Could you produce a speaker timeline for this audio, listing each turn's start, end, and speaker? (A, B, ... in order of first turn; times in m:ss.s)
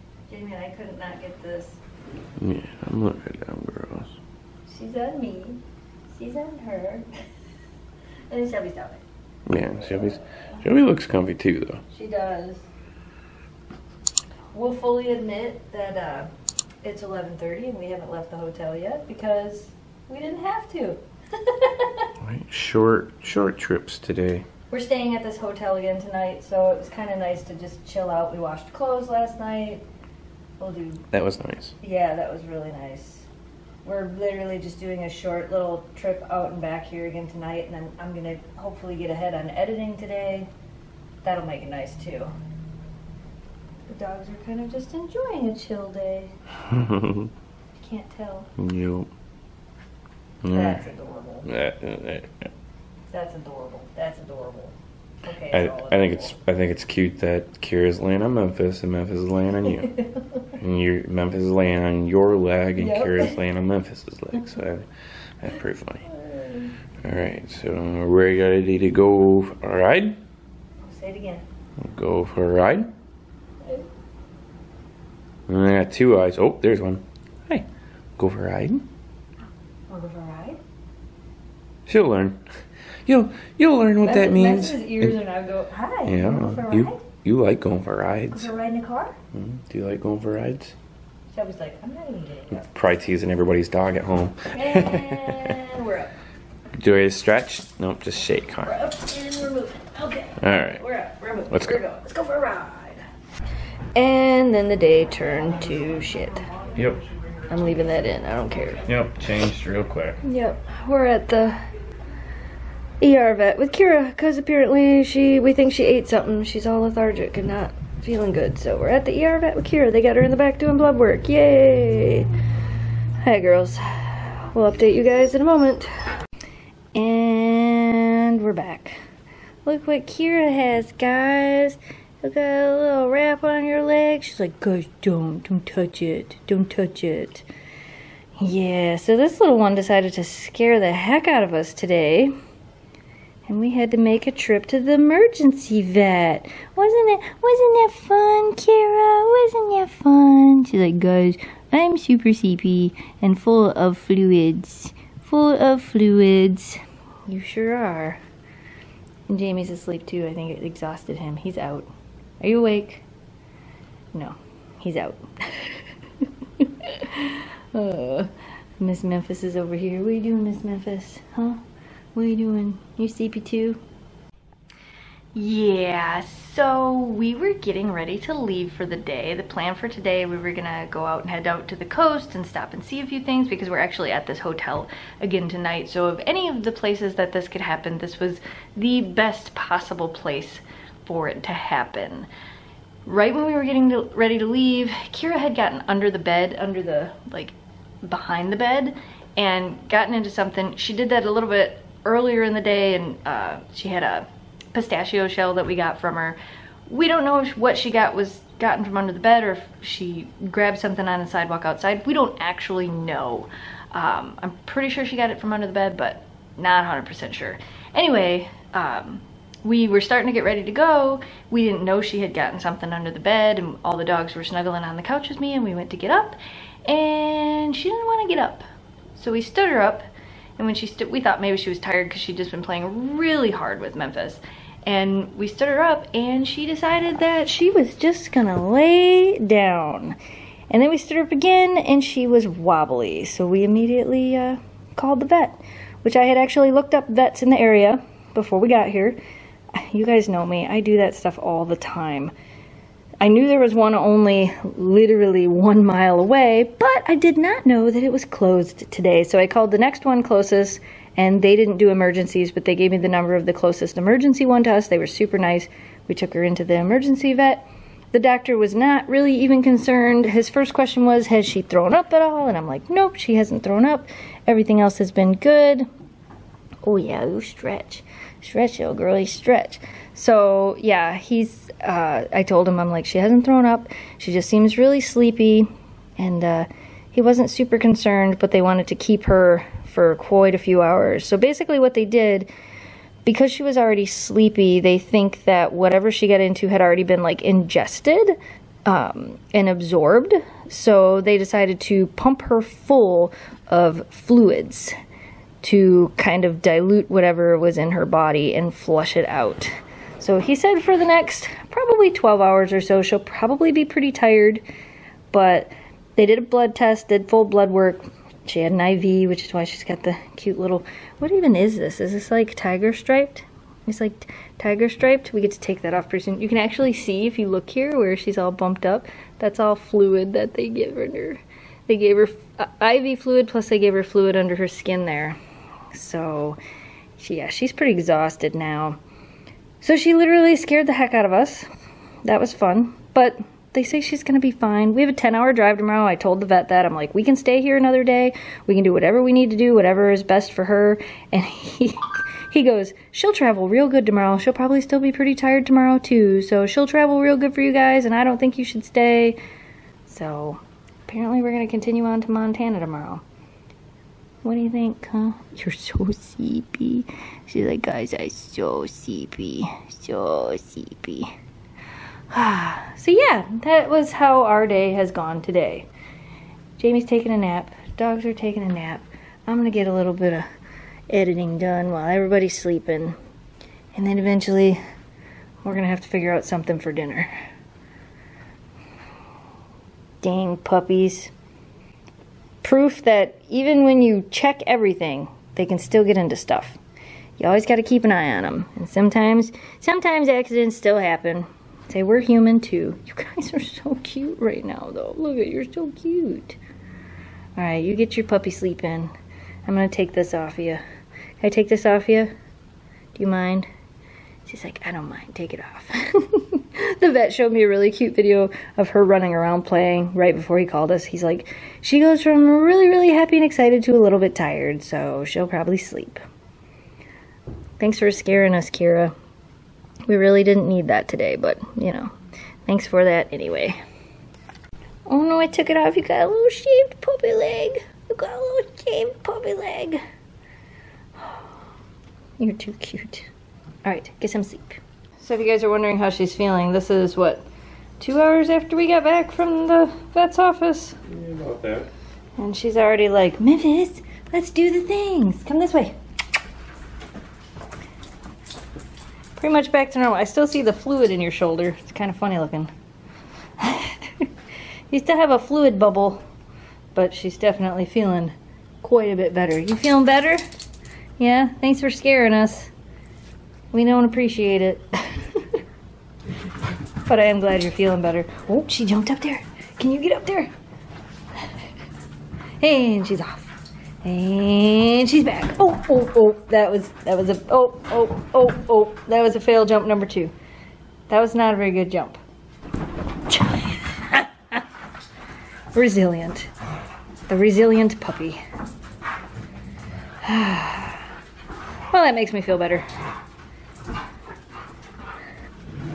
0:00.3-0:01.8 A
0:02.4-0:04.2 B
0:04.7-0:05.6 A
0:06.1-0:07.1 A
0:08.3-0:09.0 A
0:09.5-0:11.8 B
0:11.9-0:12.7 A
0:14.5-0:16.3 A
0:16.8-0:22.1 A
0:22.2-0:24.5 B
0:24.7-0:29.8 A
0:30.6-0:31.0 A
0:31.1-0:31.7 B
0:31.8-0:33.3 A
0:33.8-0:40.5 A
0:41.2-0:42.3 A
0:43.9-0:46.3 A
0:46.7-0:47.3 B
0:47.8-0:48.5 A
0:48.6-0:49.1 B
0:50.4-0:50.8 B
0:50.5-0:51.5 A
0:51.4-0:52.5 B
0:53.1-0:56.4 A
0:55.5-0:59.9 B
1:00.0-1:00.4 A
1:00.6-1:04.9 B
1:02.8-1:03.4 A
1:05.4-1:06.1 B
1:06.1-1:06.7 A
1:07.0-1:10.2 B
1:10.8-1:11.4 A
1:11.8-1:12.9 B
1:15.5-1:18.9 B
1:19.9-1:20.6 A
1:21.9-1:22.4 B
1:23.1-1:25.2 B
1:24.0-1:27.0 A
1:26.0-1:28.5 B
1:28.3-1:29.2 A
1:29.3-1:30.8 B
1:31.3-1:32.7 A
1:32.6-1:35.6 B
1:34.5-1:36.1 A
1:36.8-1:38.8 B
1:38.6-1:43.0 A
1:40.4-1:40.8 B
1:41.5-1:41.8 B
1:44.0-1:46.4 A
1:47.5-1:48.9 A
1:48.9-1:50.2 B
1:50.2-1:51.6 A
1:53.0-2:02.3 A
2:03.2-2:05.9 A
2:06.9-2:09.0 A
2:09.6-2:17.4 A
2:18.4-2:22.3 A
2:23.5-2:38.2 A
2:39.3-2:41.9 A
2:42.4-2:43.0 A
2:44.1-2:45.8 A
2:46.6-2:51.6 A
2:52.2-2:53.8 A
2:55.4-3:12.3 A
3:13.0-3:48.6 A
3:49.2-3:50.0 A
3:50.6-4:00.2 A
4:00.7-4:09.2 A
4:09.8-4:12.3 A
4:13.2-4:35.9 A
4:36.8-4:45.7 A
4:46.2-4:52.5 A
4:53.2-5:04.9 A
5:05.6-5:14.6 A
5:15.3-5:35.4 A
5:35.9-5:36.6 A
5:37.2-5:39.0 A
5:39.8-5:41.7 A
5:42.2-5:59.4 A
6:00.1-6:03.2 A
6:04.4-6:11.3 A
6:12.3-6:15.9 A
6:16.8-6:20.5 A
6:21.1-6:23.2 A
6:24.0-6:24.8 A
6:25.6-6:27.3 A
6:30.2-6:31.3 A
6:32.6-6:36.8 A
6:37.4-6:46.6 A
6:47.6-6:49.1 A
6:49.7-6:50.8 A
6:51.4-6:52.3 A
6:53.2-6:53.7 A
6:54.5-7:06.2 A
7:07.8-7:09.1 A
7:10.1-7:12.1 A
7:12.7-7:13.8 A
7:15.1-7:20.0 A
7:22.4-7:23.3 A
7:23.8-7:27.4 A
7:28.0-7:31.0 A
7:31.1-7:31.9 B
7:32.4-7:35.9 A
7:39.4-7:42.7 A
7:43.6-7:44.3 A
7:44.9-7:46.2 A
7:47.0-7:50.4 A
7:51.2-7:52.7 A
7:53.7-7:55.6 A
7:57.0-8:00.5 A
8:02.6-8:03.5 A
8:04.0-8:10.3 A
8:11.1-8:12.2 A
8:13.3-8:14.6 A
8:15.7-8:16.5 A
8:17.3-8:18.4 A
8:20.2-8:21.0 A
8:21.9-8:22.8 A